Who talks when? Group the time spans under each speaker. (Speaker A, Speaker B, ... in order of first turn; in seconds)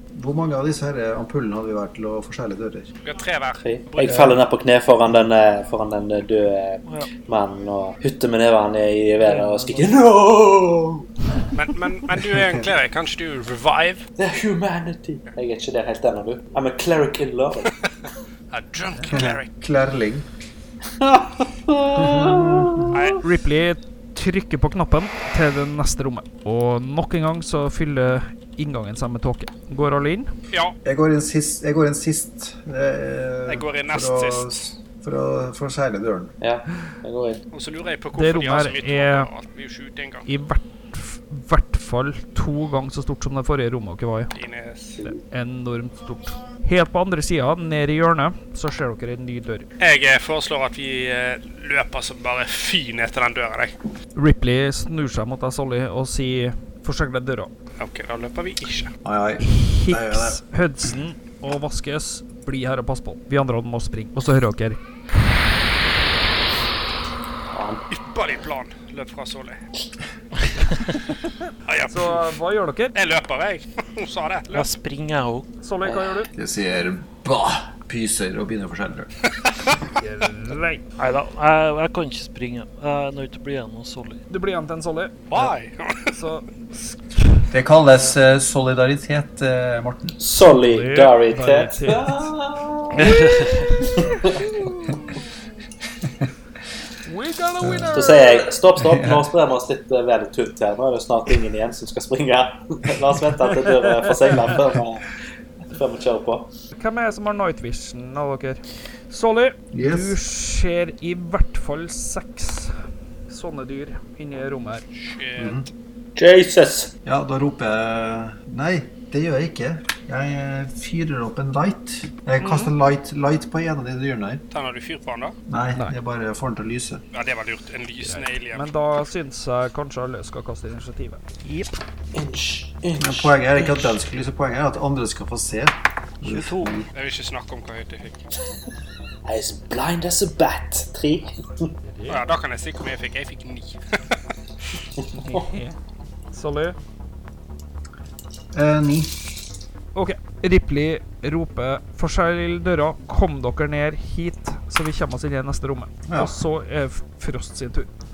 Speaker A: 0.1-2.9, 19.1-20.3, 21.9-22.9, 30.8-36.3, 59.0-60.4, 76.3-79.1, 87.5-90.2, 96.0-96.3, 97.6-99.3, 109.7-110.2, 115.4-115.7, 117.0-124.4, 125.5-127.0, 133.0-136.9, 148.5-149.4, 156.1-156.4
Speaker B: 3.0-4.4, 11.5-14.1, 18.5-19.5, 22.9-23.2, 33.5-34.5, 37.5-40.3, 44.3-45.0, 49.8-53.8, 57.8-58.9, 67.9-69.6, 71.7-72.3, 72.9-74.7, 85.3-86.1, 114.9-115.7, 124.5-125.3, 127.1-128.7, 136.9-138.2, 142.1-144.2
Speaker C: 3.6-11.1, 14.2-17.7, 21.0-23.2, 36.4-37.4, 67.5-67.8, 75.8-76.2, 90.2-94.5, 97.9-105.2, 105.7-106.5, 116.2-116.9, 132.1-134.0, 139.3-141.7
Speaker D: 9.2-10.0, 74.5-75.5, 81.0-84.2, 93.0-93.7, 131.4-131.7, 136.2-136.8
Speaker E: 23.2-30.3, 38.1-39.3, 40.3-44.3, 45.0-49.7, 54.1-57.5, 59.4-64.8, 71.1-73.0, 75.6-76.3, 79.9-80.9, 84.3-85.5, 86.1-87.5, 90.4-92.3, 93.0-95.4, 97.0-98.5, 106.8-114.8, 122.4-122.7, 128.0-131.2, 141.8-142.2, 145.1-145.8, 146.3-146.8, 149.9-157.9